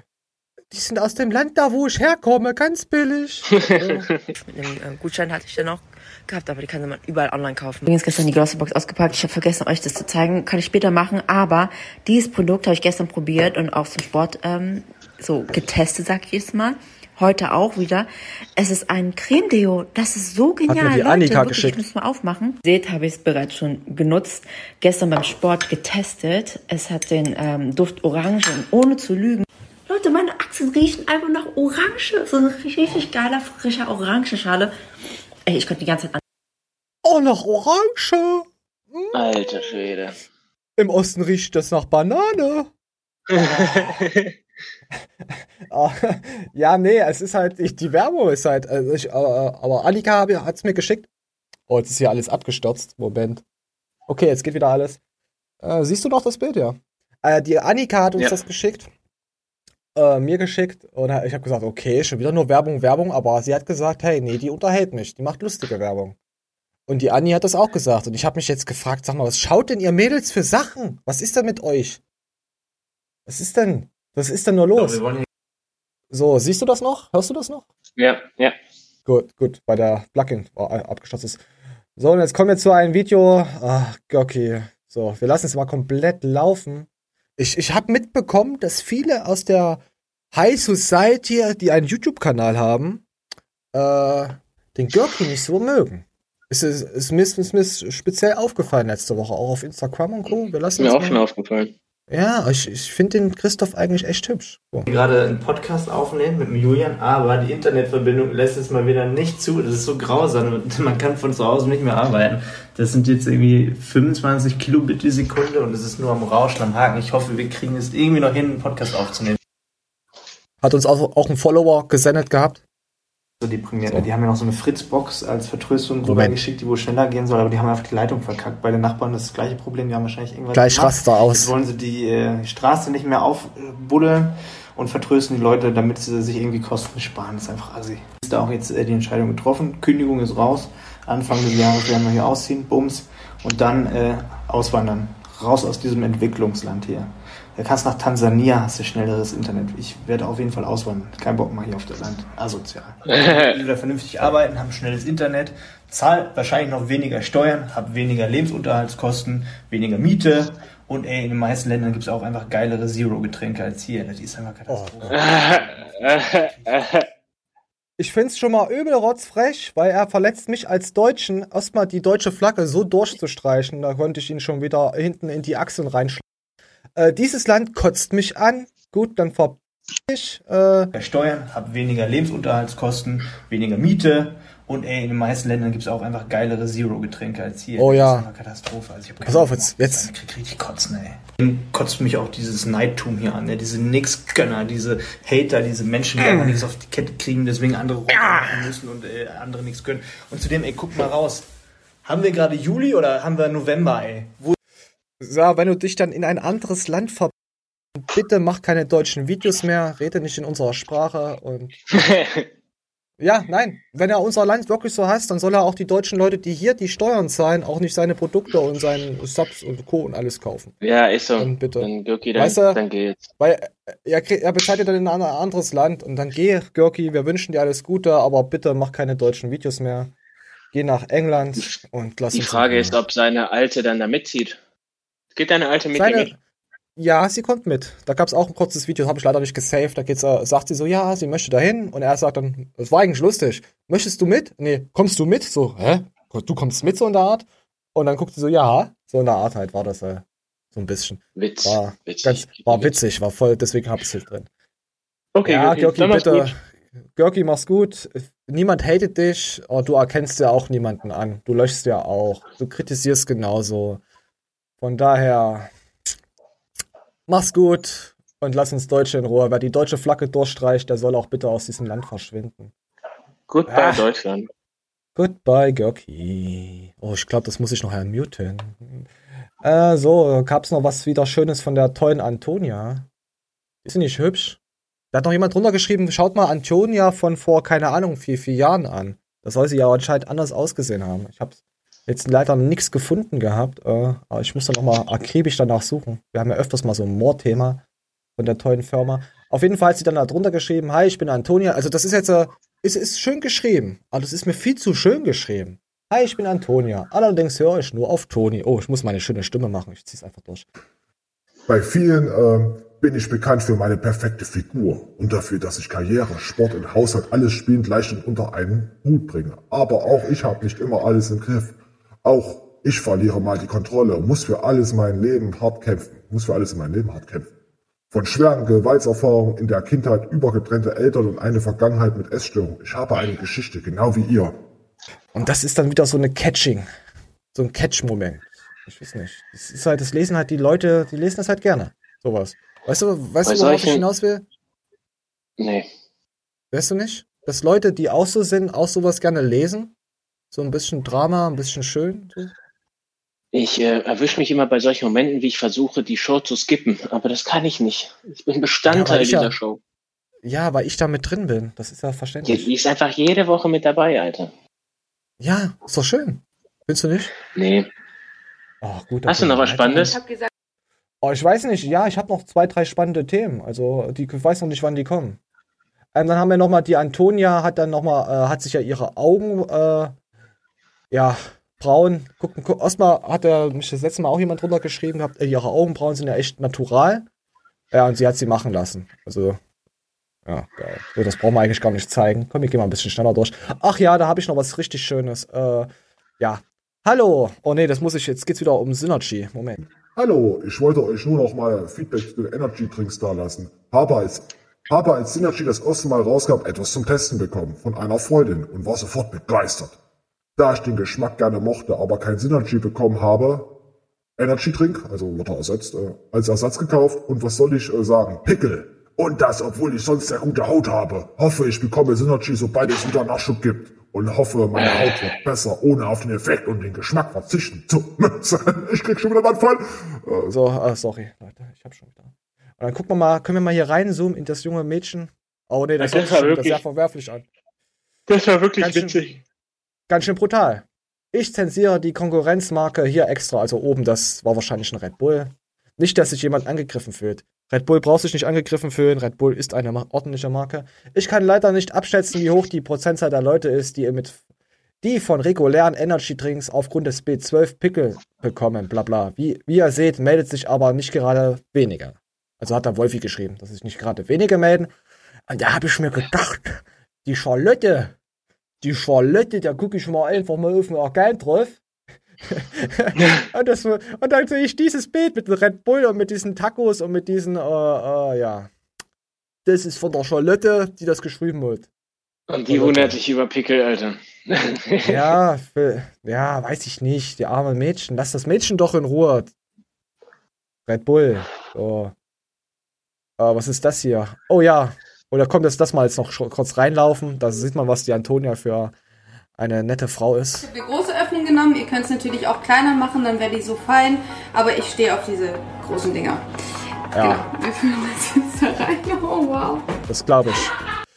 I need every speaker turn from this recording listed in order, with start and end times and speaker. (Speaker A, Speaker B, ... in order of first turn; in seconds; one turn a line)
Speaker A: 0.7-3.6
Speaker B: 3.6-4.1
Speaker C: 4.5-34.7
Speaker A: 20.7-21.8
Speaker C: 35.5-36.2
Speaker A: 37.0-39.7
Speaker B: 39.1-40.2
Speaker A: 40.8-42.7
Speaker B: 43.3-44.3
Speaker A: 43.4-43.9
Speaker A: 45.7-51.1
Speaker A: 51.7-53.4
Speaker A: 54.1-55.0
Speaker A: 55.6-58.9
Speaker A: 59.9-66.2
Speaker A: 66.9-72.0
Speaker A: 73.2-75.0
Speaker D: 74.8-75.1
Speaker A: 76.1-77.6
Speaker B: 78.0-78.5
Speaker A: 79.0-81.4
Speaker A: 82.0-89.8
Speaker A: 90.3-93.0
Speaker A: 93.7-101.2
Speaker B: 100.8-101.7
Speaker A: 102.1-104.9
Speaker D: 104.9-119.4
Speaker A: 120.6-122.6
Speaker D: 123.4-166.5
Speaker A: 126.0-126.3
Speaker A: 130.5-131.5
Speaker B: 153.1-153.5
Speaker A: 164.7-165.5
Speaker B: 165.1-167.0
Speaker A: 168.0-176.2
Speaker A: 176.9-180.9
Speaker D: 180.9-201.4
Speaker A: 187.8-188.3
Speaker A: 189.2-190.1
Speaker D: 202.0-204.6
Speaker A: 205.2-207.3
Speaker A: 207.9-211.8
Speaker B: 211.9-212.5
Speaker A: 213.2-220.7
Speaker B: 220.8-223.3
Speaker A: 221.4-222.8
Speaker A: 223.4-230.1
Speaker A: 230.7-233.0
Speaker B: 232.3-234.6
Speaker B: 235.3-236.3
Speaker A: 235.9-236.4
Speaker A: 237.0-250.2
Speaker A: 250.7-254.5
Speaker B: 251.3-253.0
Speaker B: 255.3-256.5
Speaker A: 255.4-264.0
Speaker A: 264.8-265.7
Speaker A: 267.3-272.7
Speaker B: 273.5-274.5
Speaker A: 273.7-274.1
Speaker A: 275.1-279.1
Speaker A: 279.6-283.1
Speaker A: 283.8-284.6
Speaker A: 285.1-297.8
Speaker A: 298.4-310.6
Speaker E: 311.7-327.5
Speaker E: 328.1-334.5
Speaker A: 335.3-336.9
Speaker A: 337.5-344.4
Speaker B: 343.4-344.0
Speaker B: 345.6-345.9
Speaker A: 346.7-349.9
Speaker A: 350.5-352.5
Speaker B: 353.5-359.8
Speaker A: 358.9-359.5
Speaker A: 360.4-362.7
Speaker B: 362.4-364.5
Speaker A: 365.4-367.3
Speaker B: 367.5-367.9
Speaker A: 368.8-370.2
Speaker B: 369.3-370.2
Speaker F: 370.0-370.4
Speaker A: 371.2-375.4
Speaker A: 376.1-380.1
Speaker A: 381.1-387.2
Speaker A: 387.9-389.6
Speaker A: 390.4-399.8
Speaker E: 400.1-409.9
Speaker E: 410.6-413.7
Speaker E: 414.4-430.5
Speaker B: 424.8-425.1
Speaker A: 430.5-437.4
Speaker B: 436.0-436.8
Speaker B: 438.3-439.4
Speaker A: 438.8-439.2
Speaker A: 440.1-454.4
Speaker A: 455.0-464.9
Speaker A: 465.5-468.1
Speaker A: 468.8-471.8
Speaker A: 472.5-478.7
Speaker A: 479.6-481.9
Speaker B: 482.5-485.2
Speaker A: 482.7-483.1
Speaker A: 485.0-489.5
Speaker A: 490.9-492.1
Speaker A: 493.4-498.9
Speaker A: 499.6-500.7
Speaker F: 500.6-506.4
Speaker A: 507.1-507.4
Speaker F: 507.2-509.8
Speaker A: 510.1-510.7